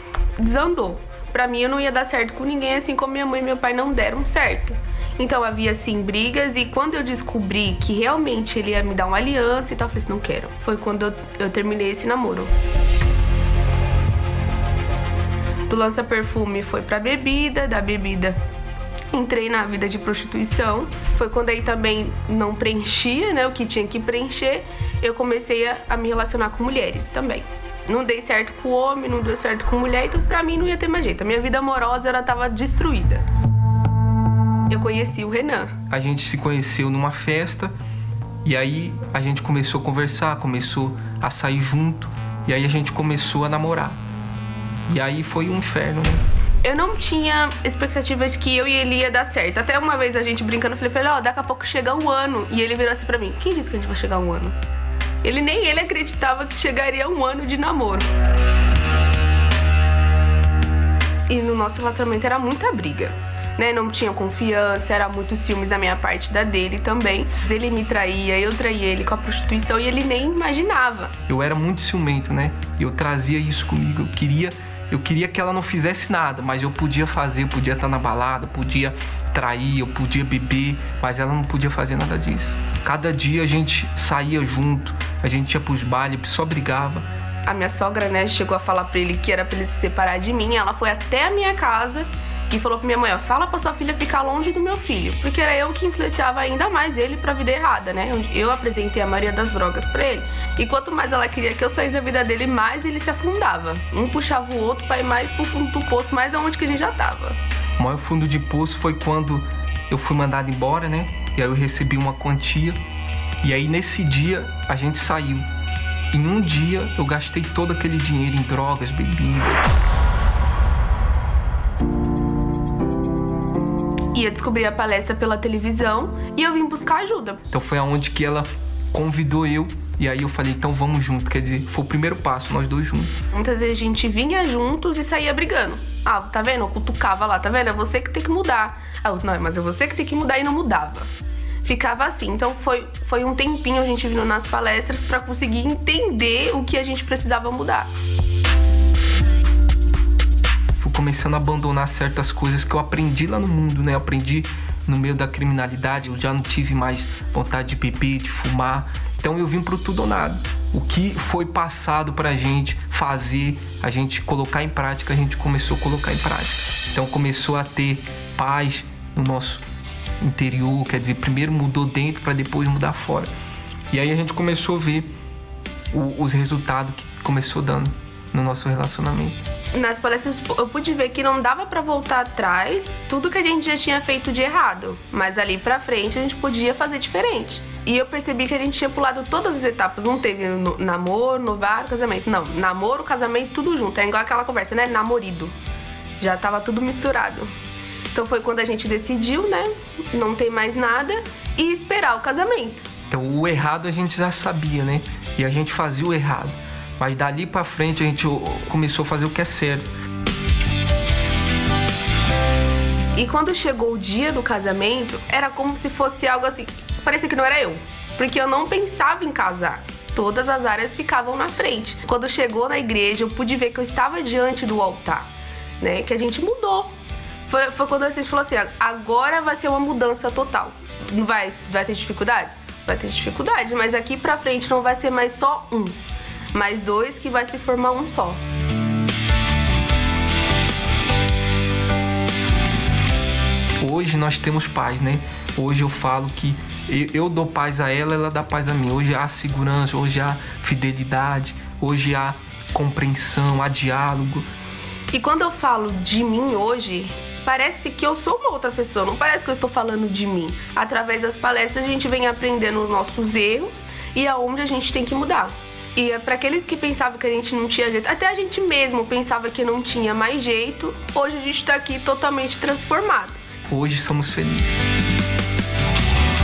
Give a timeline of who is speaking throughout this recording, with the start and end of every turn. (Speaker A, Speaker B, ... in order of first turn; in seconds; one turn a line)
Speaker A: 0.4-12.5
Speaker A: 15.7-18.4
Speaker A: 19.1-33.2
Speaker A: 34.7-35.7
Speaker B: 35.9-37.7
Speaker B: 38.4-44.0
Speaker B: 44.9-46.2
Speaker A: 46.6-54.5
Speaker A: 55.2-58.1
Speaker A: 61.3-71.1
Speaker B: 71.3-87.0
Speaker A: 87.5-107.4
Speaker B: 107.8-112.8
Speaker B: 113.4-115.5
Speaker B: 116.1-119.7
Speaker A: 124.1-127.4
Speaker B: 127.5-133.1
Speaker A: 133.3-141.1
Speaker A: 141.6-147.9
Speaker B: 150.8-169.6
Speaker B: 170.2-173.3
Speaker B: 173.9-175.1
Speaker B: 175.9-179.4
Speaker A: 179.7-195.5
Speaker A: 196.2-197.5
Speaker A: 198.1-202.9
Speaker B: 203.1-209.9
Speaker A: 213.2-225.3
Speaker A: 225.8-226.9
Speaker A: 227.5-236.0
Speaker A: 236.5-238.4
Speaker B: 243.8-254.5
Speaker A: 255.1-273.4
Speaker B: 273.7-274.7